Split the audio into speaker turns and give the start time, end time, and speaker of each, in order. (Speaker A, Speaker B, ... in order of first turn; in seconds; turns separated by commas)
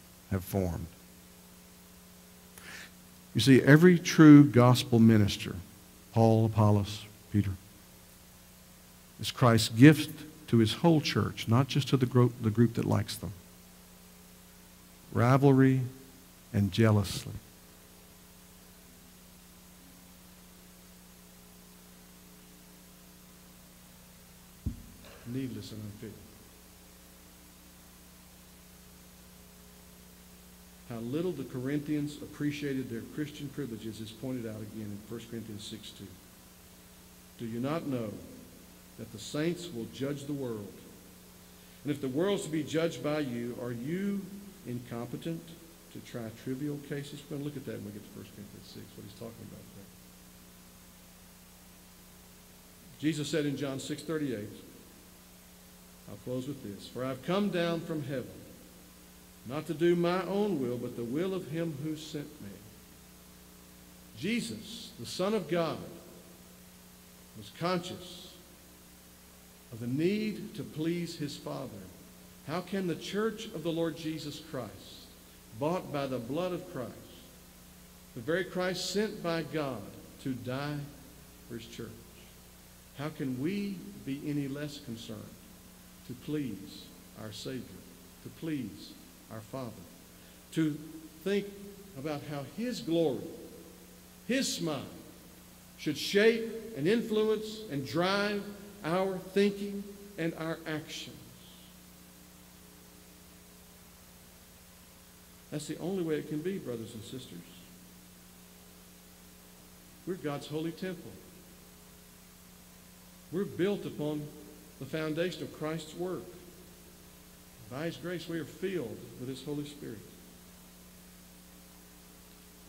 Speaker A: 0.3-0.9, Speaker A: 3.3-5.6, Speaker A: 6.1-7.6, Speaker A: 9.2-13.3, Speaker A: 15.1-15.9, Speaker A: 16.5-17.4, Speaker A: 25.2-26.2, Speaker A: 30.9-36.1, Speaker A: 37.4-38.2, Speaker A: 39.0-40.8, Speaker A: 41.8-49.9, Speaker A: 53.0-54.6, Speaker A: 56.1-58.4, Speaker A: 59.5-62.6, Speaker A: 64.1-65.9, Speaker A: 67.3-68.4, Speaker A: 69.7-71.9, Speaker A: 72.4-77.3, Speaker A: 78.1-80.8, Speaker A: 81.5-82.2, Speaker A: 83.0-85.4, Speaker A: 86.0-89.9, Speaker A: 90.5-93.4, Speaker A: 94.3-95.0, Speaker A: 95.8-101.4, Speaker A: 105.5-107.7, Speaker A: 110.0-111.2, Speaker A: 113.3-116.4, Speaker A: 117.7-120.1